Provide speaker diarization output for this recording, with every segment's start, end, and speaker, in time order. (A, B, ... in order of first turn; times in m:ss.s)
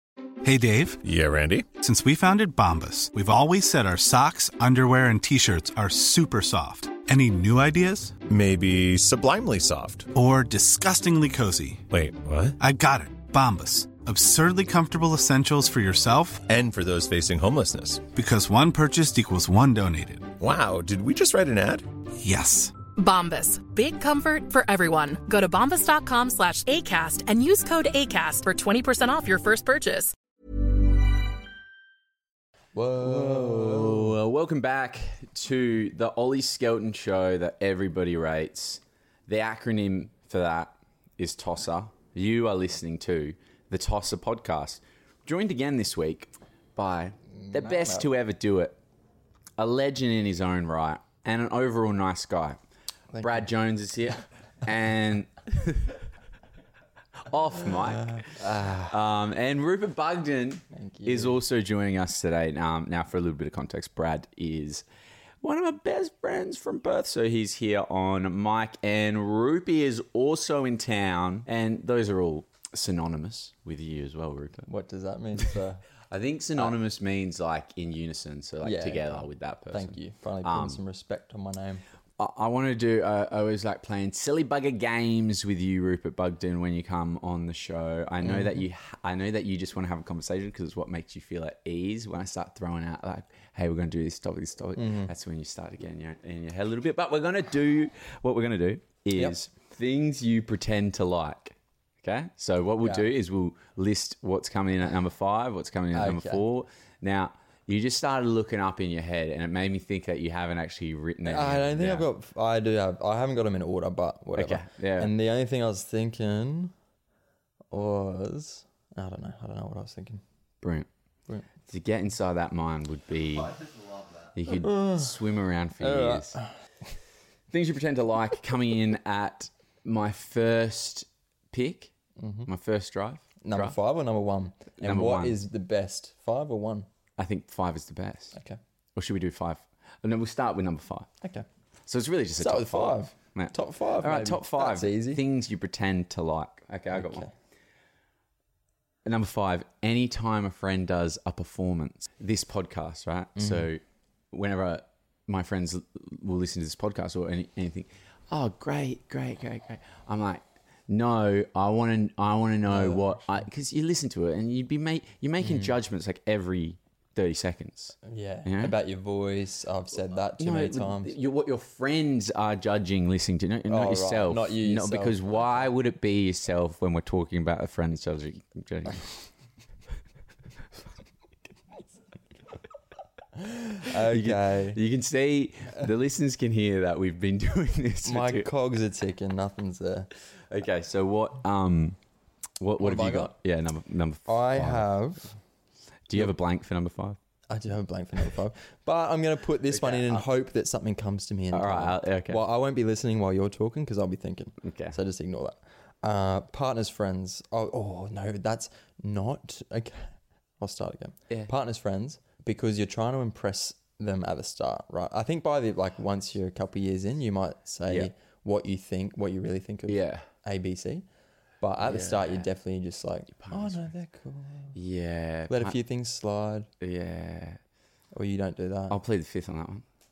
0:00.4-0:01.0 A
0:01.0-0:01.7 B
0:01.7-0:08.2 A
0:08.2-0:10.1 B
0:10.1-0:11.8 A
0:11.9-0:12.6 B
0:12.6-0:16.4 A
0:16.5-0:18.0 B
0:18.1-0:20.3 A
0:20.4-0:21.9 B
0:22.2-0:22.7 A
0:23.0-0:30.1 C
0:32.7-0:34.1 D
0:33.0-0:48.8 E
0:47.4-0:48.1 D
0:49.6-0:52.6 E
0:53.1-0:53.5 D
0:53.2-0:55.9 E
0:57.2-1:04.8 E
0:58.2-0:59.0 D
1:00.7-1:01.4 D
1:05.4-1:14.7 E
1:14.6-1:15.8 D
1:16.1-1:20.8 E
1:18.6-1:21.8 D
1:22.2-1:52.0 E
1:28.2-1:28.6 D
1:34.8-1:35.1 D
1:42.8-1:43.1 D
1:45.9-1:46.4 D
1:51.2-1:56.7 D
1:54.4-1:55.1 E
1:57.7-2:00.2 D
2:00.6-2:00.9 E
2:01.7-2:03.6 E
2:04.3-2:06.4 E
2:04.5-2:05.1 D
2:05.8-2:06.5 D
2:07.5-2:11.9 E
2:12.2-2:12.5 D
2:12.4-2:13.7 E
2:13.4-2:16.9 D
2:14.8-2:15.4 E
2:17.2-2:18.4 E
2:18.3-2:18.6 D
2:19.0-2:21.1 E
2:21.2-2:21.4 D
2:21.9-2:27.3 E
2:22.4-2:25.2 D
2:26.9-2:27.3 D
2:29.0-2:33.8 E
2:33.4-2:33.7 D
2:34.3-2:48.7 E
2:42.7-2:43.4 D
2:45.4-2:45.8 D
2:48.0-2:51.1 D
2:50.4-2:59.0 E
2:53.7-2:55.2 D
3:03.4-3:04.8 D
3:04.0-3:08.5 E
3:08.0-3:10.1 D
3:10.5-3:12.0 E
3:12.6-3:14.9 E
3:12.8-3:13.3 D
3:14.3-3:15.4 D
3:16.1-3:17.2 E
3:17.5-3:41.0 D
3:19.7-3:20.2 E
3:21.5-3:22.4 E
3:24.6-3:25.0 E
3:39.9-3:40.2 E
3:41.6-3:44.7 D
3:41.8-3:42.4 E
3:43.4-3:43.8 E
3:44.7-3:45.8 E
3:45.5-3:46.7 D
3:46.8-3:47.6 E
3:48.1-3:49.0 D
3:48.9-3:49.8 E